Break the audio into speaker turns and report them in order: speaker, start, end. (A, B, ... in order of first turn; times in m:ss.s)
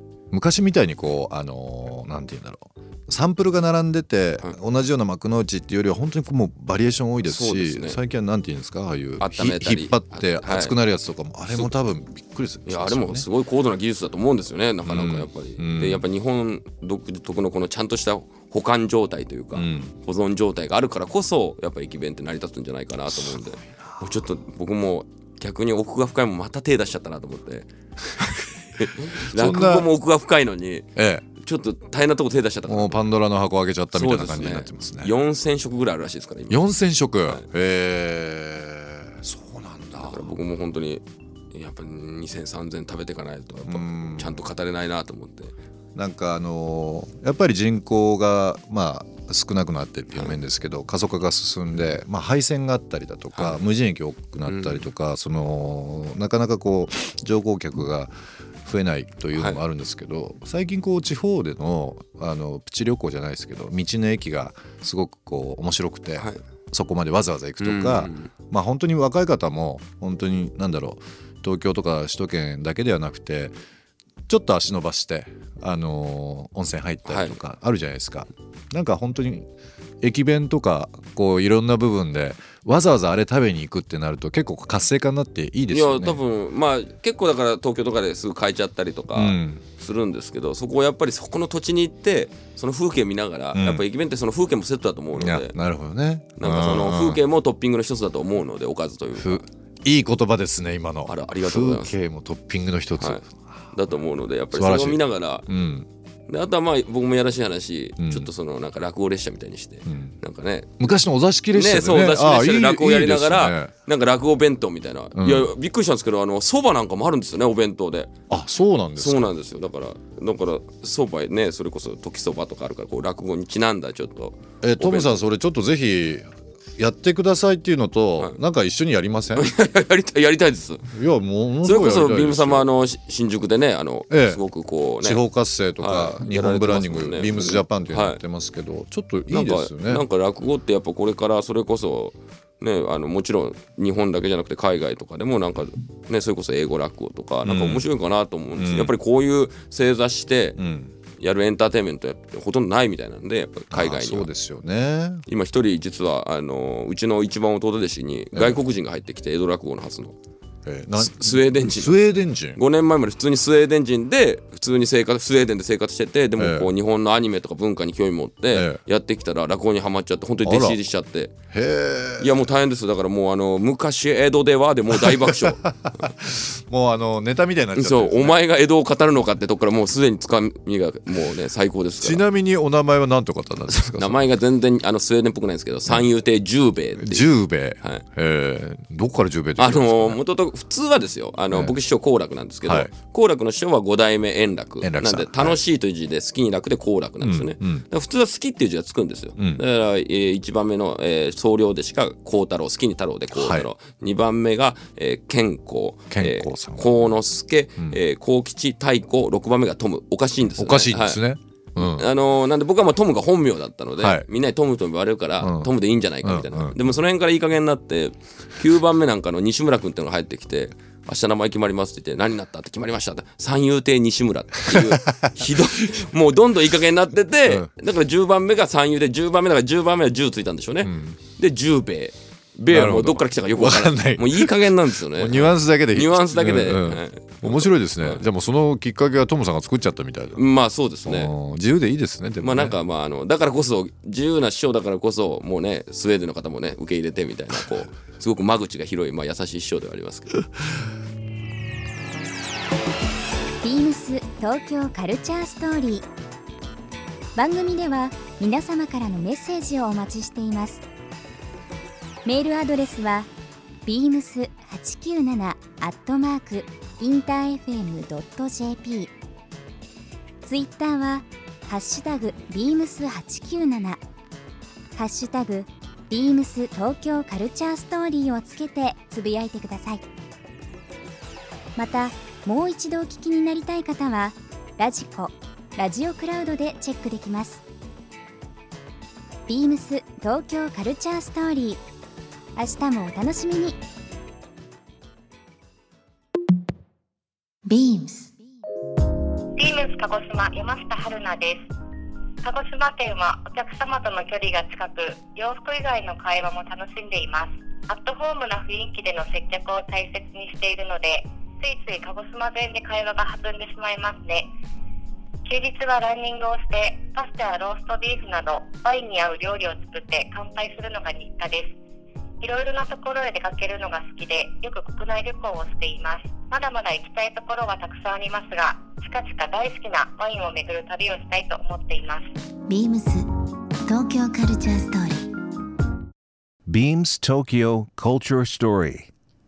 0:00.3-0:13.3 A
0:07.2-0:08.0 B
0:09.2-0:10.8 B
0:12.6-0:33.1 B
0:14.8-0:16.1 A
0:19.5-0:19.9 A
0:23.1-0:23.7 A
0:29.3-0:29.9 A
0:31.0-0:31.2 A
0:32.7-0:35.1 A
0:33.9-0:37.4 B
0:36.5-0:40.3 A
0:40.0-0:45.5 B
0:43.6-0:44.5 A
0:45.9-1:13.6 A
0:50.1-0:50.4 B
0:53.3-0:53.6 B
0:54.5-0:54.9 B
0:59.3-0:59.6 B
1:07.6-1:08.3 B
1:14.3-1:19.5 A
1:17.0-1:17.4 B
1:20.0-1:26.2 A
1:25.7-1:35.6 B
1:29.1-1:29.6 A
1:33.5-1:33.8 A
1:35.1-1:37.2 A
1:36.4-1:39.4 B
1:39.2-1:43.8 A
1:41.0-1:41.9 B
1:43.0-1:45.4 B
1:44.5-1:45.9 A
1:46.3-1:50.7 B
1:48.0-1:48.3 A
1:49.8-1:50.2 A
1:50.8-1:53.7 A
1:51.5-1:58.1 B
1:55.2-1:55.5 A
1:58.3-1:59.3 A
1:59.0-2:05.2 B
2:04.6-2:09.5 A
2:09.4-2:10.9 B
2:10.9-2:12.7 A
2:11.6-2:18.2 B
2:14.1-2:20.0 A
2:19.3-2:30.6 B
2:27.4-2:27.8 A
2:28.6-2:28.9 A
2:30.6-2:30.9 A
2:31.2-2:34.3 B
2:33.7-2:35.2 A
2:35.2-2:40.1 B
2:38.3-2:38.6 A
2:40.6-2:42.6 A
2:41.0-2:42.0 B
2:42.5-2:51.3 B
2:46.4-2:46.7 A
2:48.5-2:48.8 A
2:50.4-2:50.8 A
2:51.5-2:52.4 A
2:52.2-2:56.1 B
2:55.0-2:58.3 A
2:57.8-3:02.2 B
3:02.0-3:04.2 A
3:03.7-3:08.0 B
3:07.0-3:10.2 A
3:09.6-3:31.2 B
3:11.5-3:11.8 A
3:12.6-3:12.9 A
3:14.8-3:15.6 A
3:17.2-3:17.8 A
3:19.4-3:19.6 A
3:23.3-3:23.7 A
3:26.1-3:27.1 A
3:30.6-3:32.1 A
3:31.8-3:58.2 B
3:34.0-3:34.3 A
3:35.4-3:36.8 A
3:44.7-3:45.3 A
3:50.8-3:51.2 A
3:52.7-4:02.8 A
4:00.3-4:01.3 B
4:02.4-4:10.5 B
4:13.6-4:16.1 C
4:17.3-4:20.8 C
4:22.2-4:23.3 C
4:23.8-4:29.1 C
4:30.4-4:34.0 C
4:34.9-4:40.0 C
4:41.8-4:47.6 C
4:49.5-4:51.8 C
4:52.6-4:53.8 C
4:57.6-4:58.3 D
4:59.6-5:01.6 E
5:02.4-5:14.5 E
5:15.4-5:21.7 E
5:22.4-5:32.3 E
5:32.7-5:33.3 D
5:33.9-5:35.3 D
5:36.7-5:39.1 F